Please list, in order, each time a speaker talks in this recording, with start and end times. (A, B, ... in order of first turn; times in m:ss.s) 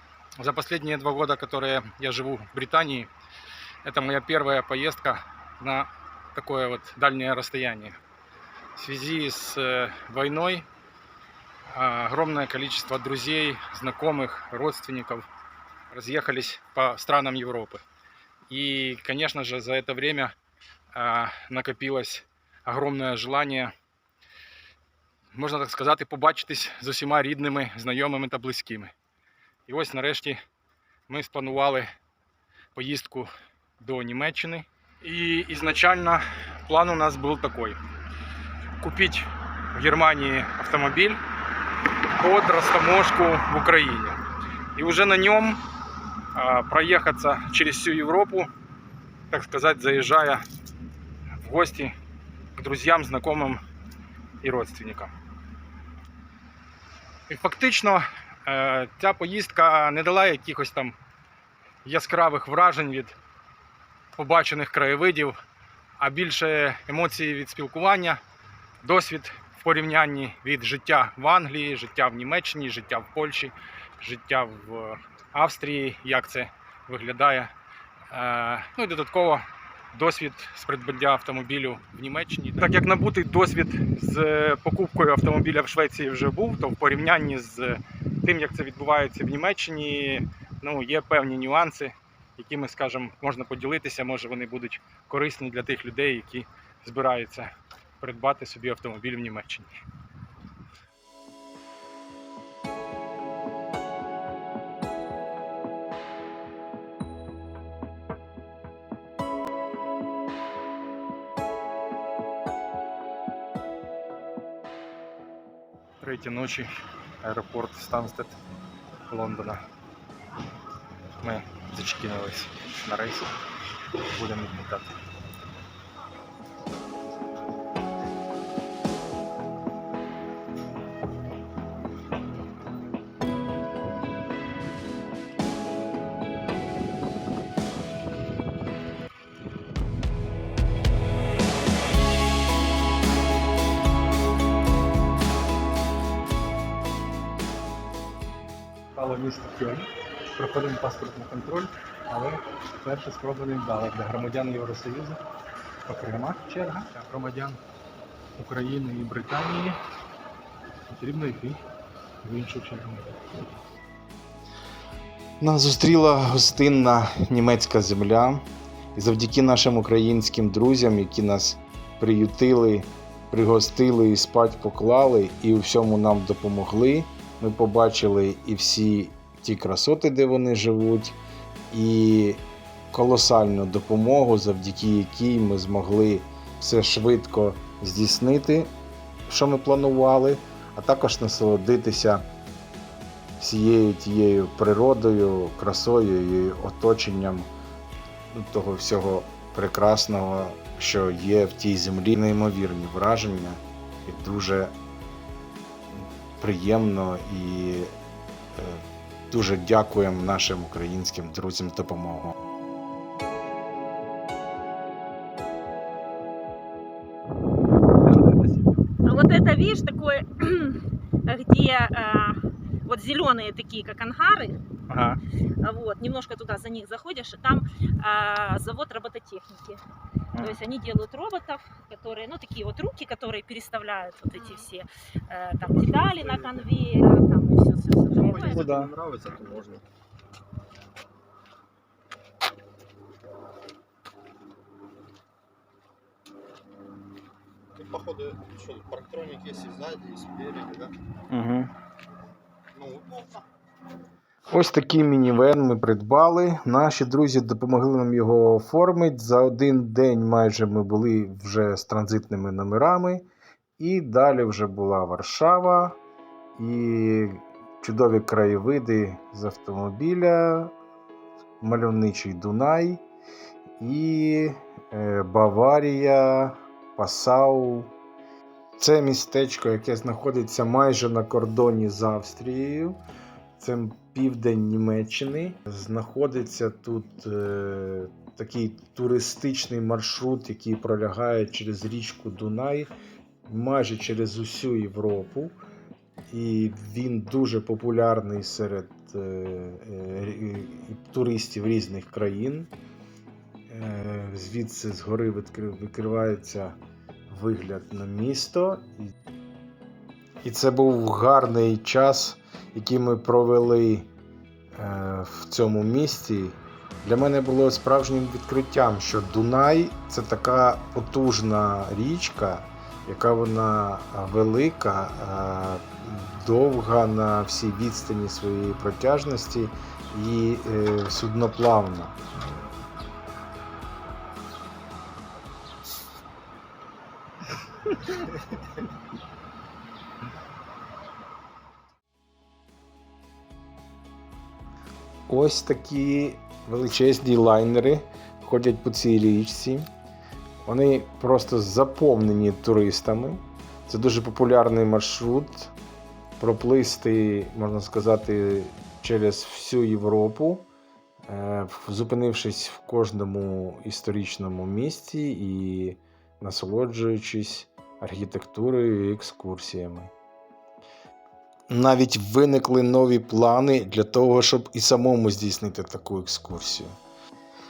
0:00.4-0:03.1 A
0:03.8-0:08.0 A
0:08.7-0:10.6 A
0:11.7-0:15.3 A
0:15.9-0:17.8 A
0:18.5-0:20.3 A
0:20.9-0:23.7 A
0:25.3-0:28.9 A
0:29.7-0:30.4 A
0:31.1-0:31.9 A
0:32.7-0:37.8 A
0:38.8-0:41.2 A
0:42.0-0:44.2 A
0:44.7-0:45.6 A
0:46.3-0:48.5 A
0:49.3-0:50.4 A
0:51.4-0:51.9 A
0:52.5-0:53.6 A
0:54.4-0:55.1 A
0:57.3-1:00.9 A
1:01.8-1:03.2 A
1:04.1-1:05.4 A
1:06.0-1:08.2 A
1:08.8-1:17.5 A
1:18.1-1:39.7 A
1:56.0-1:56.7 A
1:57.2-1:58.4 A
1:59.1-1:59.6 A
2:01.2-2:03.3 A
2:04.0-2:04.9 A
2:28.9-2:35.2 A
2:35.8-2:37.6 A
2:38.4-2:39.8 A
2:40.9-2:41.6 A
2:42.2-2:43.2 A
2:45.4-2:48.4 B
2:48.9-3:01.2 B
3:01.7-3:08.7 B
3:09.3-3:12.2 B
3:13.4-3:17.5 B
3:18.3-3:24.7 B
3:25.9-3:27.9 B
3:28.5-3:32.3 B
3:38.0-3:38.8 A
3:39.0-3:44.6 C
3:44.9-3:45.2 A
3:45.6-3:49.8 C
3:50.3-3:50.6 A
3:50.4-3:58.7 C
3:55.9-3:56.6 D
3:58.2-3:59.8 D
3:58.4-3:58.9 A
4:07.7-4:10.9 D
4:11.3-4:11.7 A
4:12.7-4:13.4 D
4:14.5-4:23.2 B
4:23.8-4:26.0 B
4:26.6-4:30.7 B
4:31.6-4:33.0 B
4:33.8-4:37.9 B
4:38.8-4:43.0 B
4:43.6-4:52.9 B
4:53.4-4:55.6 B
4:56.3-5:02.7 B
5:03.7-5:06.8 B
5:07.3-5:09.1 B
5:10.4-5:14.1 B
5:14.7-5:32.2 B
5:45.3-5:49.9 B
5:50.6-5:55.7 B
5:56.4-6:00.7 B
6:01.3-6:10.1 B
6:11.7-6:17.0 B